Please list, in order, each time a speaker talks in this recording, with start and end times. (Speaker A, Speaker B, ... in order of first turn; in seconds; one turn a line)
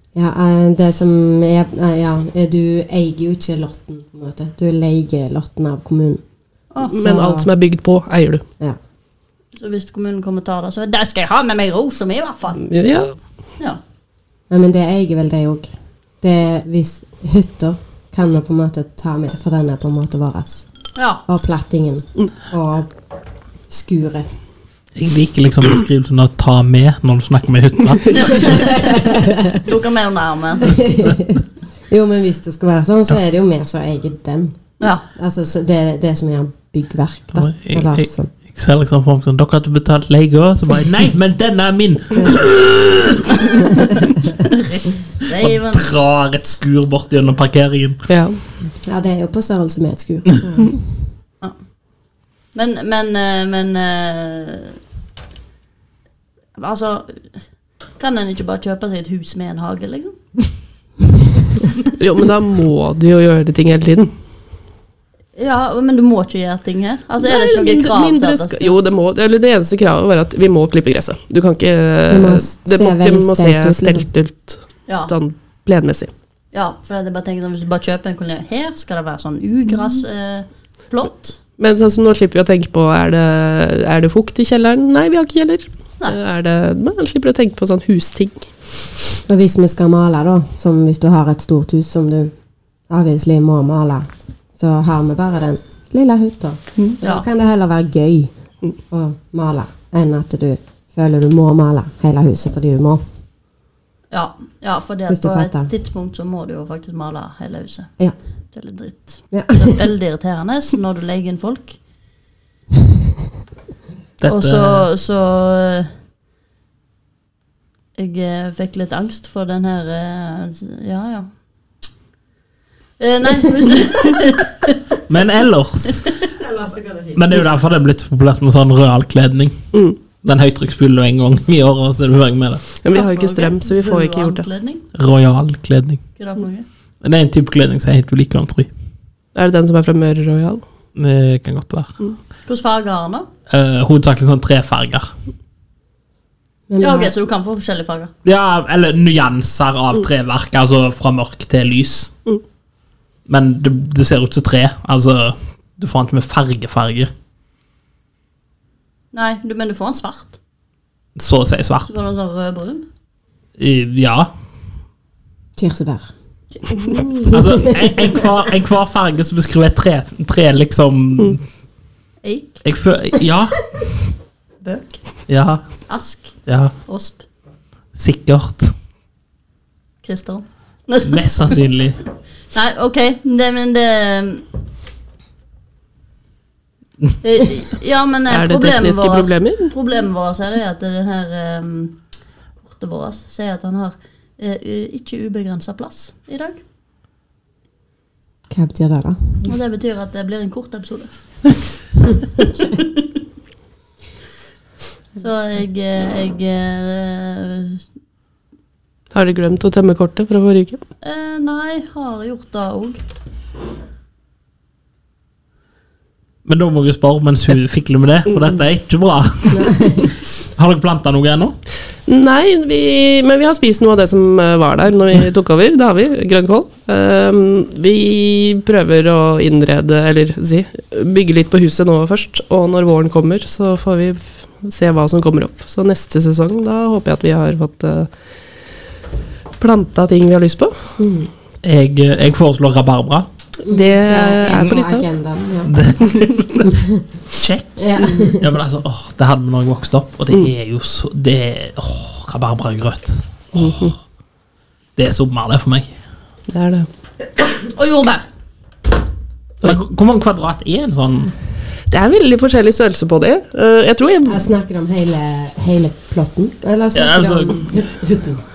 Speaker A: 0.1-6.2
Speaker B: 6.9-8.4
Speaker A: 6.9-7.5
Speaker C: 9.5-12.6
Speaker B: 12.6-13.2
Speaker A: 14.5-20.7
Speaker C: 20.9-21.2
Speaker A: 21.3-22.9
Speaker A: 23.7-24.3
Speaker D: 24.9-28.5
Speaker C: 28.1-28.8
Speaker A: 28.3-29.6
Speaker C: 29.6-30.7
Speaker A: 30.6-34.5
Speaker C: 34.8-35.0
Speaker A: 35.1-38.3
Speaker D: 37.3-43.3
Speaker A: 42.1-42.4
Speaker C: 44.4-45.9
Speaker D: 45.4-48.1
Speaker B: 48.1-48.4
Speaker A: 48.8-51.0
Speaker C: 52.5-54.8
Speaker C: 56.6-57.4
Speaker C: 58.0-60.2
Speaker B: 62.0-64.1
Speaker C: 65.3-68.8
Speaker B: 67.2-76.1
Speaker A: 72.1-74.1
Speaker C: 74.9-75.1
Speaker C: 76.5-81.4
Speaker B: 81.6-88.5
Speaker A: 89.3-92.3
Speaker A: 92.9-98.3
Speaker C: 96.8-97.2
Speaker A: 98.9-103.0
Speaker C: 104.1-107.9
Speaker A: 105.1-105.7
Speaker C: 108.5-111.8
Speaker A: 109.3-109.8
Speaker D: 114.2-114.8
Speaker C: 114.2-115.9
Speaker C: 118.0-121.3
Speaker C: 123.0-124.8
Speaker D: 125.1-126.1
Speaker A: 126.3-127.4
Speaker D: 127.1-129.7
Speaker D: 130.2-132.7
Speaker B: 132.8-134.4
Speaker C: 132.9-134.8
Speaker D: 134.9-136.0
Speaker C: 136.2-136.7
Speaker D: 137.0-138.7
Speaker B: 139.3-140.6
Speaker D: 140.9-142.0
Speaker C: 142.4-143.3
Speaker D: 143.5-145.1
Speaker A: 146.7-147.1
Speaker C: 146.8-148.1
Speaker D: 148.2-152.1
Speaker D: 153.3-157.1
Speaker C: 159.1-160.4
Speaker D: 161.2-161.9
Speaker C: 161.8-162.8
Speaker D: 163.6-164.3
Speaker A: 165.6-166.1
Speaker C: 166.5-167.0
Speaker B: 166.7-167.3
Speaker A: 167.3-167.9
Speaker D: 167.3-171.4
Speaker C: 172.2-172.6
Speaker D: 172.6-173.8
Speaker C: 174.6-175.0
Speaker D: 175.3-176.7
Speaker C: 175.9-177.2
Speaker D: 177.9-178.7
Speaker C: 180.0-181.3
Speaker D: 181.0-181.9
Speaker C: 182.5-184.4
Speaker C: 187.2-192.0
Speaker B: 188.3-189.7
Speaker C: 192.6-196.6
Speaker A: 198.5-199.5
Speaker C: 199.4-201.2
Speaker C: 202.6-203.1
Speaker C: 205.2-207.8
Speaker B: 209.1-210.8
Speaker C: 211.0-213.0
Speaker D: 216.4-219.7
Speaker A: 219.5-220.1
Speaker D: 220.5-221.5
Speaker B: 222.1-238.1
Speaker B: 239.6-241.0
Speaker A: 241.0-241.3
Speaker D: 241.6-243.3
Speaker A: 243.6-245.8
Speaker B: 243.7-245.0
Speaker D: 245.6-246.7
Speaker A: 246.7-247.0
Speaker D: 247.3-253.9
Speaker A: 247.8-248.5
Speaker B: 253.6-253.9
Speaker D: 255.0-255.9
Speaker B: 256.5-256.9
Speaker C: 257.5-258.2
Speaker D: 259.6-261.3
Speaker B: 261.9-264.4
Speaker A: 264.2-268.4
Speaker D: 266.9-267.8